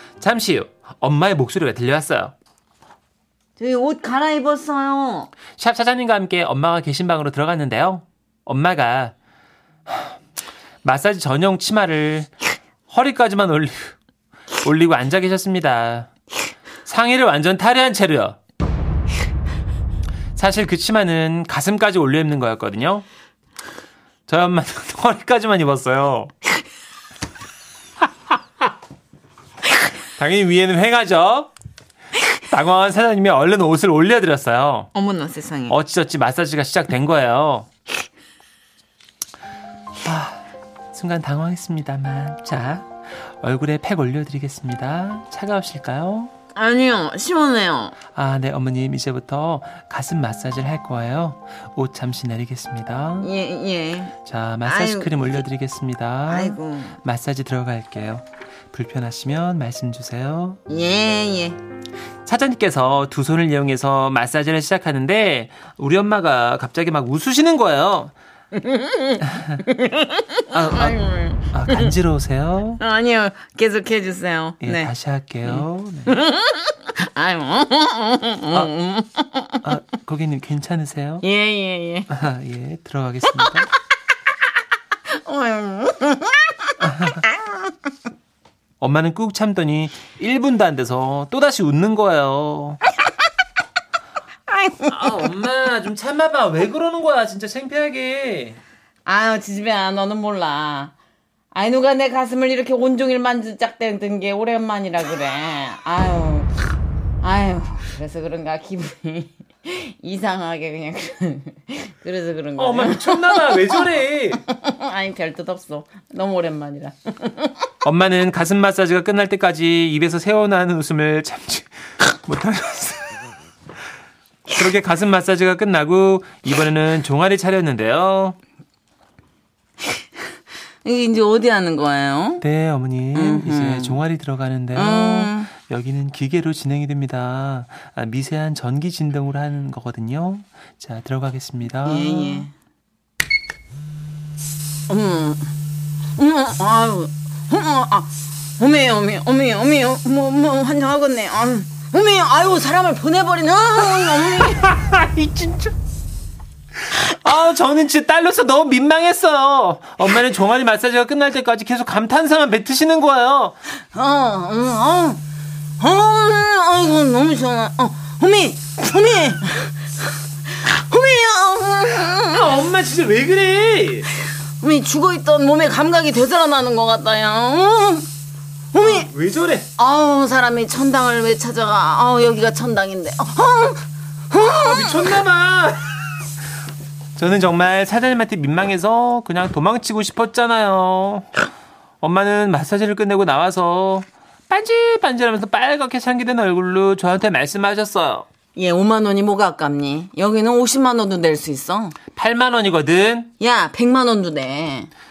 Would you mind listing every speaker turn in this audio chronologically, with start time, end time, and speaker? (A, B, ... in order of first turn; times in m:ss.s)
0:00.2-0:02.3 A
0:03.6-0:05.3 B
0:05.6-0:09.1 A
0:09.9-0:10.1 A
0:10.8-0:12.3 A
0:12.9-0:13.9 A
0:14.6-0:16.1 A
0:16.8-0:18.4 A
0:20.4-0:23.0 A
0:24.3-0:26.3 A
0:30.2-0:31.5 A
0:32.5-0:34.9 A
0:34.9-0:35.8 B
0:35.7-0:37.7 A
0:40.0-0:40.4 A
0:40.9-0:46.3 A
0:46.5-0:48.0 B
0:48.1-0:53.3 A
0:53.2-0:55.4 B
0:54.2-1:00.6 A
0:56.3-0:57.0 B
1:00.7-1:01.6 B
1:02.2-1:08.1 A
1:08.5-1:11.9 B
1:10.5-1:12.8 A
1:12.8-1:14.9 B
1:14.6-1:16.2 A
1:15.4-1:19.6 B
1:19.6-1:21.2 A
1:21.2-1:22.1 B
1:22.1-1:23.7 A
1:25.1-1:27.7 B
1:26.8-1:27.2 A
1:28.8-1:32.8 A
1:34.5-1:35.2 B
1:34.9-1:38.6 A
1:39.0-1:40.9 B
1:41.5-1:53.9 B
1:52.6-1:54.4 A
1:54.4-1:57.6 B
1:57.8-2:03.2 A
2:04.5-2:08.4 A
2:10.8-2:12.4 B
2:12.4-2:22.5 A
2:13.1-2:14.0 B
2:14.7-2:15.5 B
2:21.8-2:22.5 B
2:24.9-2:25.5 B
2:26.2-2:34.7 B
2:33.9-2:35.7 A
2:36.9-2:43.6 A
2:43.9-2:45.2 B
2:45.8-2:49.9 B
2:50.5-2:52.6 B
2:52.3-2:54.1 A
2:54.6-2:58.1 B
2:58.7-2:59.1 B
2:58.8-2:59.7 A
2:59.8-3:05.2 B
3:04.5-3:06.0 A
3:07.2-3:11.4 A
3:12.0-3:18.3 A
3:18.5-3:22.0 B
3:22.1-3:23.3 A
3:23.4-3:24.9 B